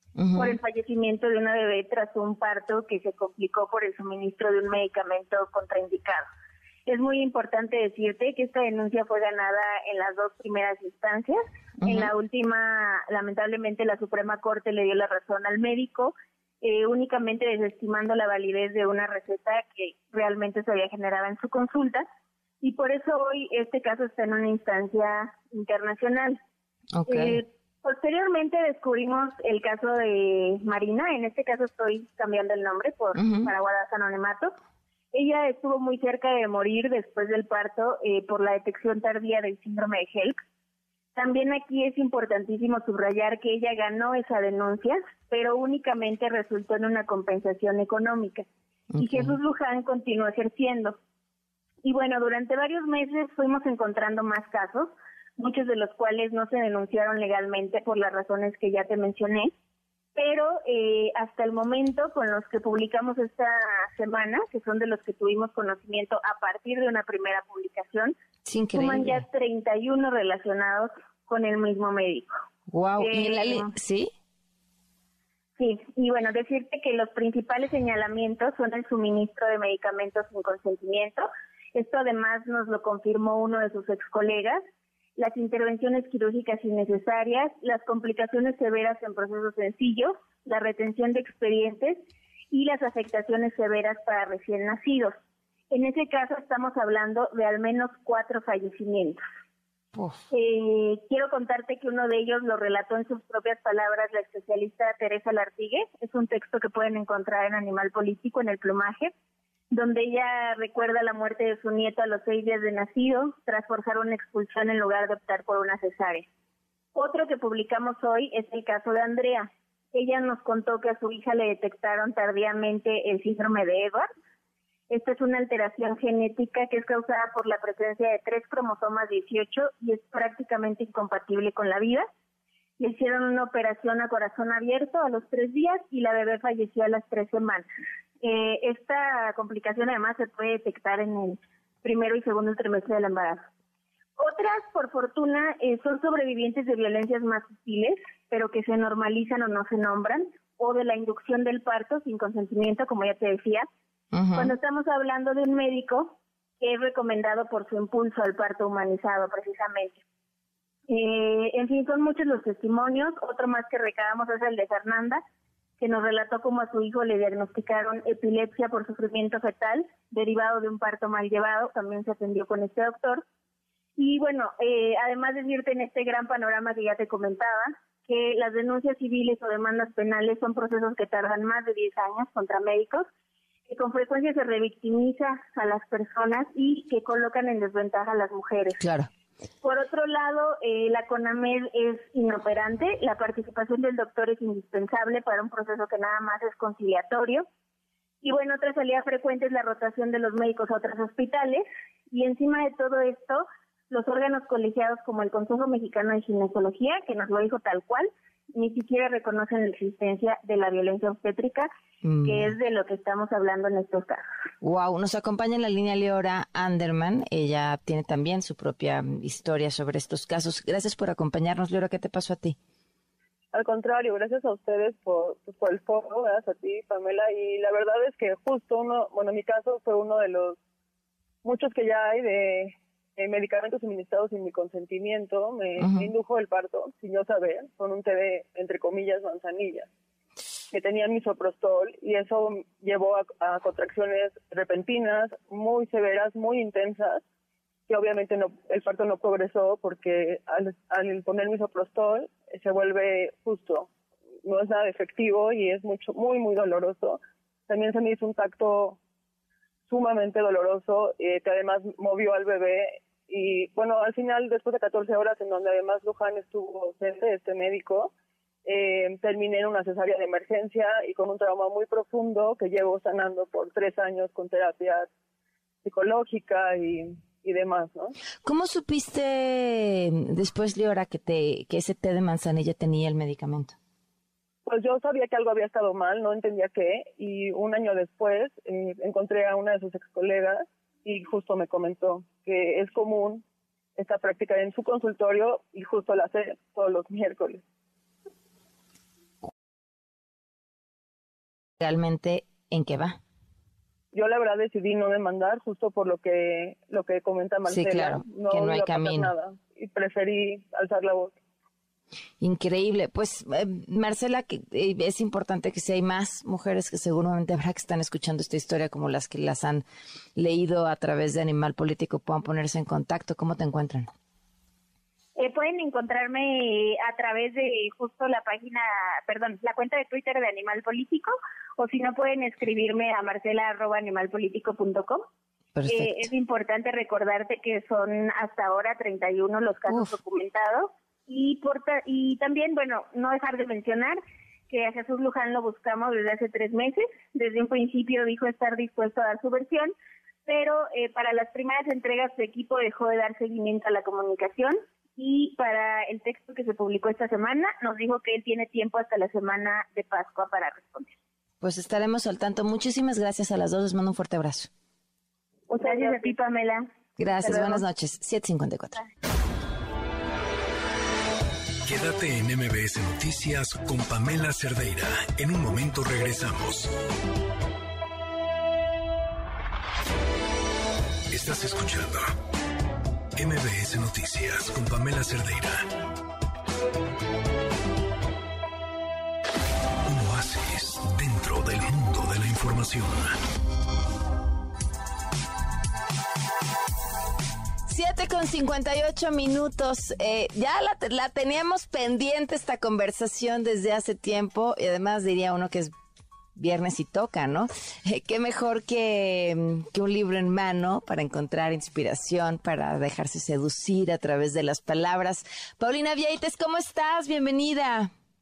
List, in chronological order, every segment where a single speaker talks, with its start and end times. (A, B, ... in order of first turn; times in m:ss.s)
0:00.2-0:00.6 A
0:00.3-0:06.3 B
0:06.9-0:22.0 B
0:11.8-0:12.1 A
0:22.6-0:26.4 B
0:26.9-0:27.4 A
0:27.1-0:34.5 B
0:33.1-0:33.5 A
0:35.1-0:40.4 B
0:41.1-0:48.4 B
0:48.9-0:49.3 A
0:49.0-0:51.0 B
0:51.8-0:59.5 B
1:00.2-1:08.1 B
1:08.4-1:09.2 A
1:08.7-1:12.3 B
1:12.7-1:14.1 A
1:13.0-1:13.7 B
1:15.6-1:24.6 B
1:25.2-1:35.1 B
1:35.7-1:39.2 B
1:39.9-1:40.2 A
1:40.3-1:49.1 B
1:49.7-1:56.2 B
1:56.9-2:04.1 B
2:04.9-2:12.1 B
2:12.8-2:17.6 B
2:18.2-2:23.4 B
2:24.2-2:33.7 B
2:34.1-2:34.5 A
2:34.3-2:40.0 B
2:40.9-2:45.2 B
2:45.8-2:53.2 B
2:54.0-3:03.1 B
3:03.7-3:08.8 B
3:08.8-3:09.1 A
3:09.6-3:17.4 B
3:18.2-3:31.7 B
3:32.0-3:32.5 A
3:32.2-3:34.2 B
3:34.6-3:42.6 A
3:43.5-3:50.6 C
3:51.4-3:59.9 C
3:55.8-3:56.1 A
4:00.7-4:07.2 C
4:07.9-4:13.9 C
4:14.4-4:19.0 C
4:19.9-4:28.1 C
4:28.6-4:35.1 C
4:35.8-4:38.1 C
4:38.4-4:43.7 A
4:44.6-4:53.4 C
4:54.0-4:57.6 C
5:01.8-5:03.2 A
5:04.1-5:11.3 C
5:07.7-5:09.3 A
5:12.4-5:19.8 A
5:20.4-5:24.1 A
5:25.4-5:35.2 B
5:35.8-5:36.3 A
5:35.9-5:49.9 B
5:50.4-6:01.1 B
6:01.6-6:04.7 A
6:05.7-6:06.3 C
6:05.7-6:06.9 B
6:07.2-6:09.0 A
6:07.4-6:07.8 B
6:11.8-6:16.9 D
6:21.3-6:22.3 D
6:23.4-6:25.9 D
6:30.0-6:33.4 D
6:37.9-6:45.9 A
6:46.6-6:58.1 A